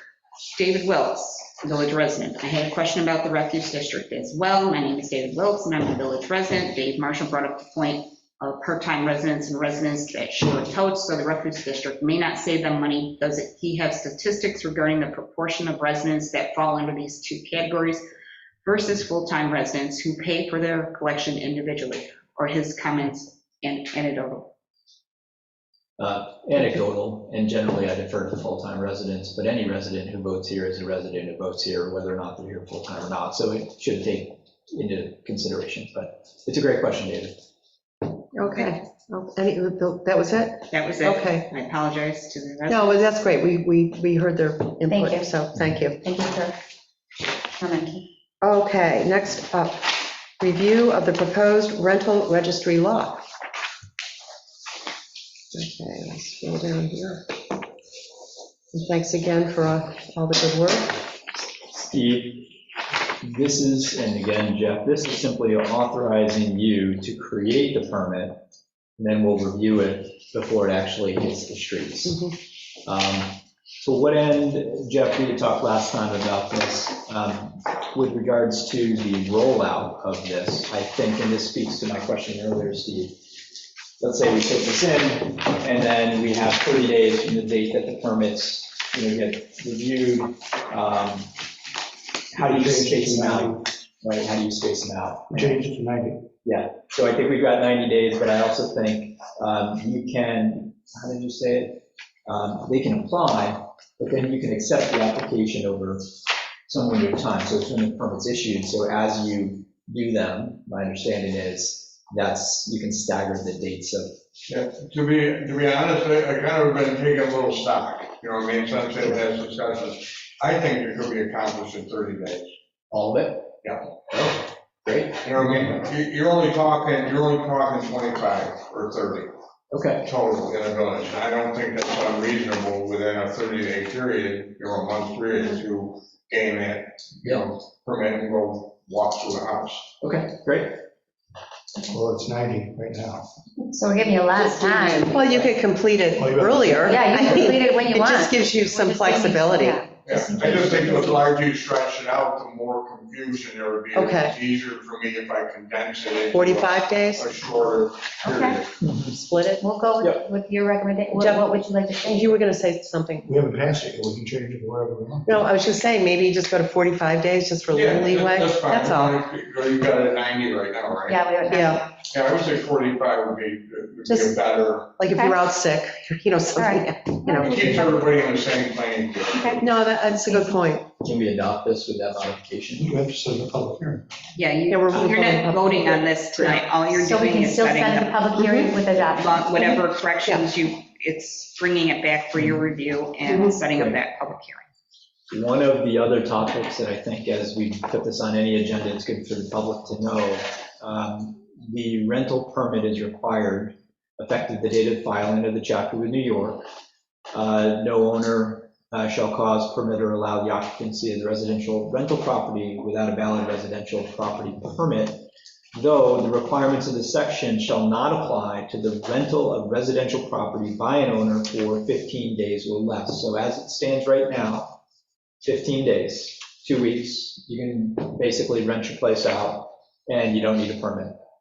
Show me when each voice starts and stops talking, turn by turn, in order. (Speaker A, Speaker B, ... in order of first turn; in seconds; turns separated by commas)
Speaker A: 0.5-18.0, Speaker A: 18.6-24.5, Speaker B: 26.0-37.4, Speaker C: 38.3-41.5, Speaker A: 40.7-43.2, Speaker C: 42.7-46.0, Speaker D: 44.9-45.3, Speaker D: 46.0-46.6, Speaker D: 47.6-48.0, Speaker C: 48.4-53.2, Speaker C: 55.5-57.2, Speaker C: 58.7-61.1, Speaker B: 61.7-62.6, Speaker B: 63.2-68.4, Speaker B: 69.0-91.3, Speaker B: 92.3-95.6, Speaker E: 92.3-93.6, Speaker E: 95.3-96.2, Speaker B: 96.4-114.1, Speaker F: 114.5-122.5, Speaker B: 122.9-123.6, Speaker F: 123.6-123.9, Speaker B: 124.1-125.7, Speaker F: 125.2-129.3, Speaker B: 129.7-130.1, Speaker F: 130.0-139.9, Speaker B: 140.0-140.8, Speaker E: 141.8-143.3, Speaker D: 143.7-145.1, Speaker C: 144.3-149.9, Speaker E: 146.1-147.0, Speaker D: 146.8-151.2, Speaker F: 150.1-158.8, Speaker C: 153.9-154.3, Speaker C: 156.3-157.3, Speaker D: 158.2-158.6, Speaker B: 158.8-159.2, Speaker C: 159.0-159.6, Speaker D: 159.6-162.4, Speaker B: 160.0-160.2, Speaker C: 161.1-163.3, Speaker E: 163.2-165.5, Speaker C: 165.2-169.2, Speaker F: 167.7-171.2, Speaker D: 171.0-171.9, Speaker C: 171.5-171.8, Speaker F: 172.0-175.1, Speaker C: 174.1-174.4, Speaker C: 175.0-177.9, Speaker D: 175.1-175.4, Speaker D: 176.5-178.1, Speaker F: 177.4-179.7, Speaker D: 179.3-179.6, Speaker C: 179.6-180.8, Speaker D: 180.2-180.5, Speaker B: 181.0-182.9, Speaker E: 182.8-184.1, Speaker A: 184.3-194.7, Speaker C: 184.7-186.6, Speaker D: 186.9-189.7, Speaker C: 188.4-188.8, Speaker C: 193.3-193.5, Speaker B: 195.3-206.7, Speaker B: 207.3-224.8, Speaker B: 225.4-231.1